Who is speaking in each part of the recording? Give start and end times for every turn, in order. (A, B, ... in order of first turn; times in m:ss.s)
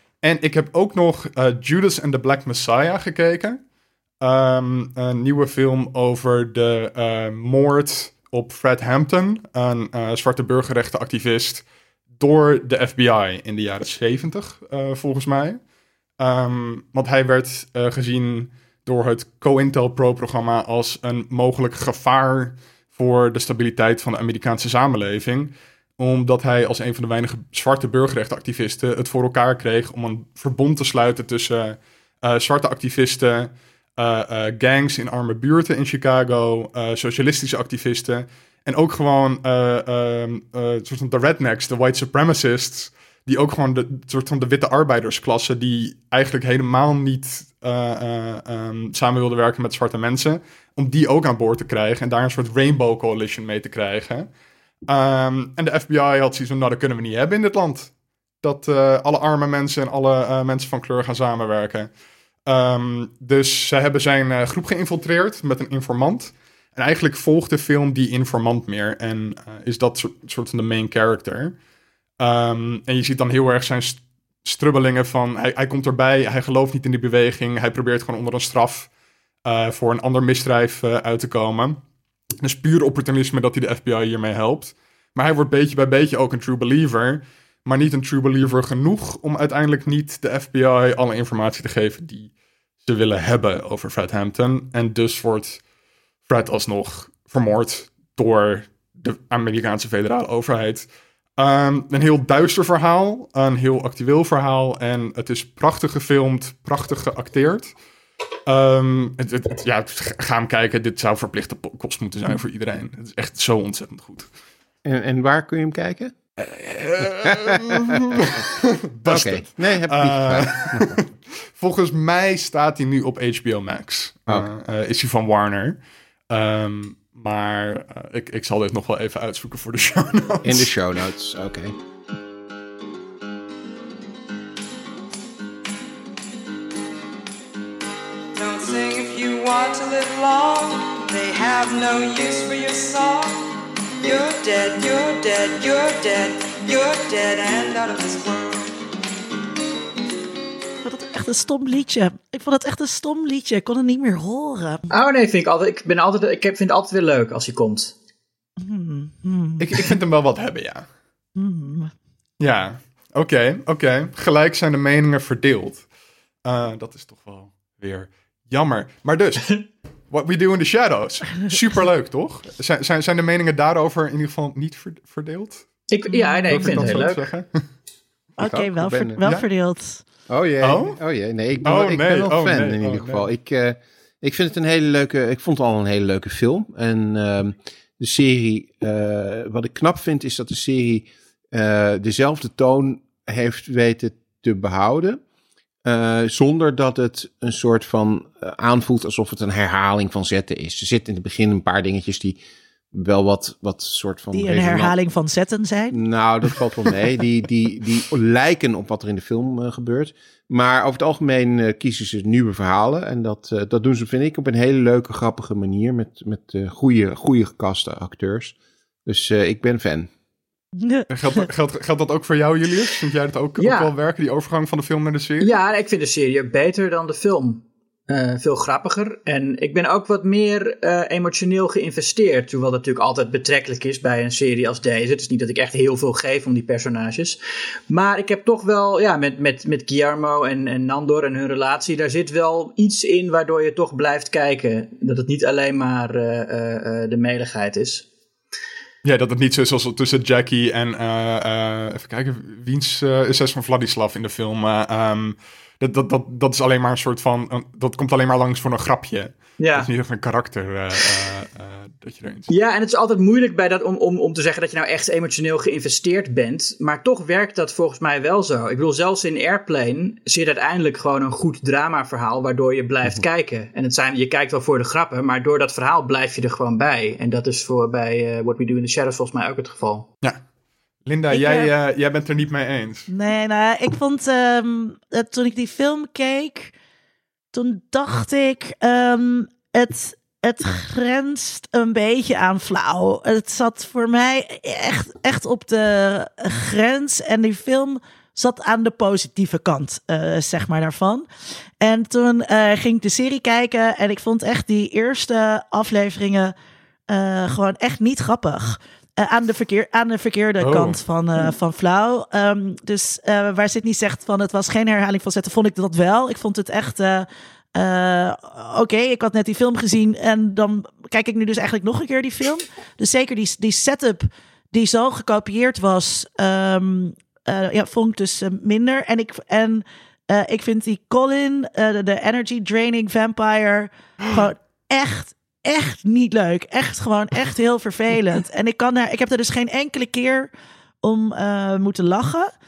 0:00.2-0:03.6 A
0:04.2-0:11.6 A
0:12.2-0:15.6 A
0:16.2-0:54.3 A
0:54.9-1:01.9 A
1:02.5-1:11.6 A
1:12.2-1:18.9 A
1:19.4-1:21.8 A
1:22.4-1:35.6 A
1:36.2-1:47.7 A
1:48.4-1:54.3 A
1:54.8-1:56.1 B
1:56.4-2:05.8 A
1:57.2-1:58.4 B
1:59.0-2:01.0 B
2:06.3-2:10.7 A
2:10.4-2:11.7 B
2:18.3-2:28.7 C
2:30.8-2:34.8 D
2:34.9-2:37.9 E
2:38.6-2:39.8 D
2:39.6-2:40.9 A
2:41.4-2:41.9 D
2:42.4-2:45.8 A
2:46.4-2:55.7 A
2:55.9-2:57.3 E
2:56.1-2:57.0 D
2:56.5-2:57.6 A
2:58.4-3:00.0 D
2:58.4-2:59.2 B
3:00.3-3:15.2 B
3:00.6-3:01.0 A
3:01.6-3:03.3 A
3:15.8-3:22.4 B
3:22.9-3:24.9 B
3:24.3-3:26.0 D
3:25.9-3:38.5 B
3:39.0-3:40.1 B
3:40.8-3:41.1 D
3:41.1-3:45.5 A
3:43.6-3:43.9 E
3:45.4-3:57.4 E
3:57.9-4:08.0 E
4:09.0-4:22.5 A
4:19.6-4:19.9 E
4:22.5-4:40.1 E
4:41.0-4:43.1 A
4:41.3-4:41.7 D
4:43.1-4:46.7 D
4:47.5-5:01.3 D
5:01.8-5:06.5 D
5:07.1-5:40.5 D
5:10.6-5:11.0 A
5:41.0-5:42.5 D